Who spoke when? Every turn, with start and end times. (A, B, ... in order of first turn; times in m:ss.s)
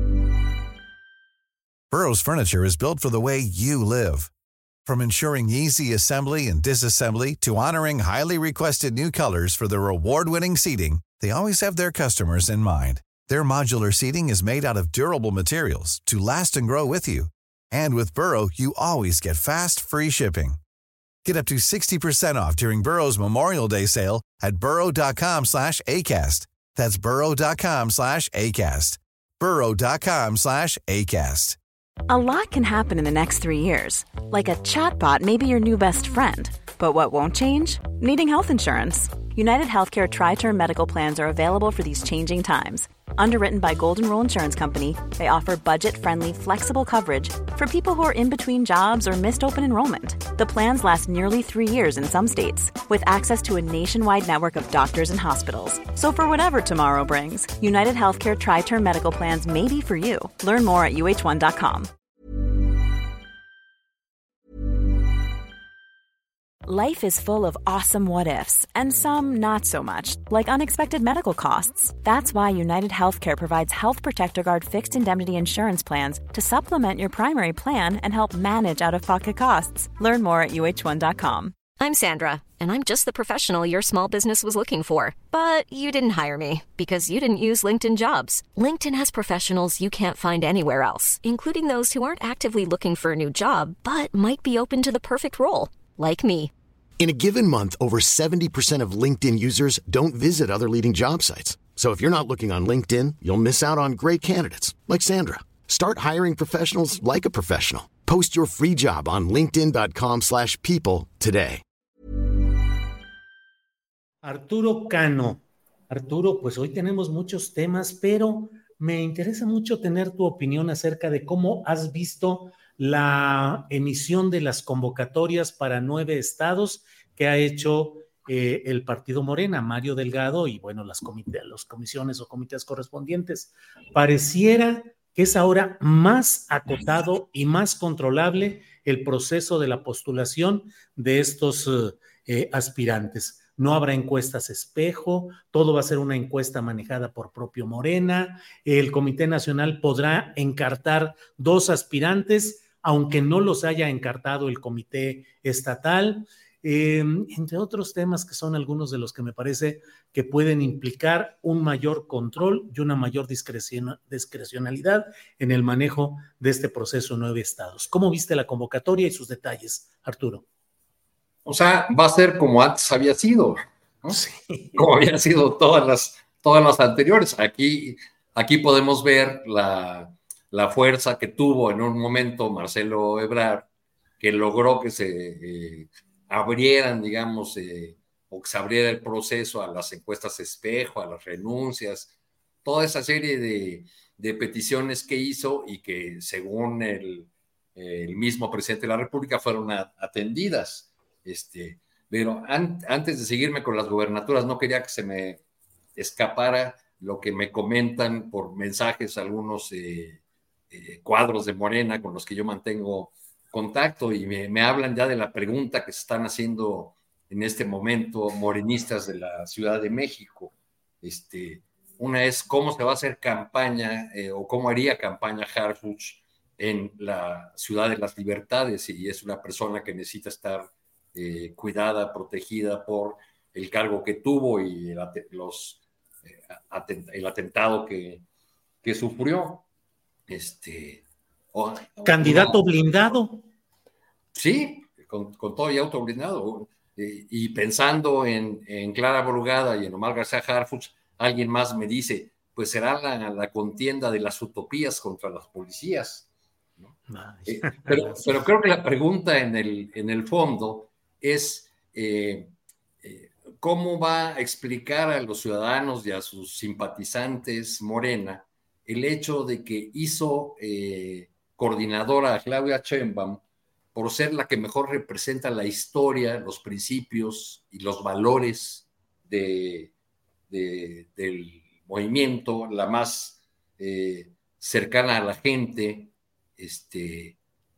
0:01.9-0:04.3 A
0:04.8-0:20.6 A
0:21.2-0:31.6 A
0:32.1-1:01.9 B
1:06.6-1:21.5 B
1:21.8-1:36.5 C
1:37.0-1:51.6 D
1:54.2-2:50.4 E
2:51.4-2:54.2 F
2:54.1-2:54.8 E
2:54.8-3:03.7 F
3:04.2-3:12.1 F
3:12.6-3:25.4 F
3:26.0-3:30.2 F
3:30.7-3:58.2 F
3:58.8-3:59.6 F
4:00.3-4:02.6 F
4:02.0-4:03.4 E
4:04.3-4:16.3 F
4:17.1-4:18.4 E
4:17.5-4:22.5 F
4:23.0-4:33.4 F
4:33.9-4:39.9 F
4:40.5-4:47.4 F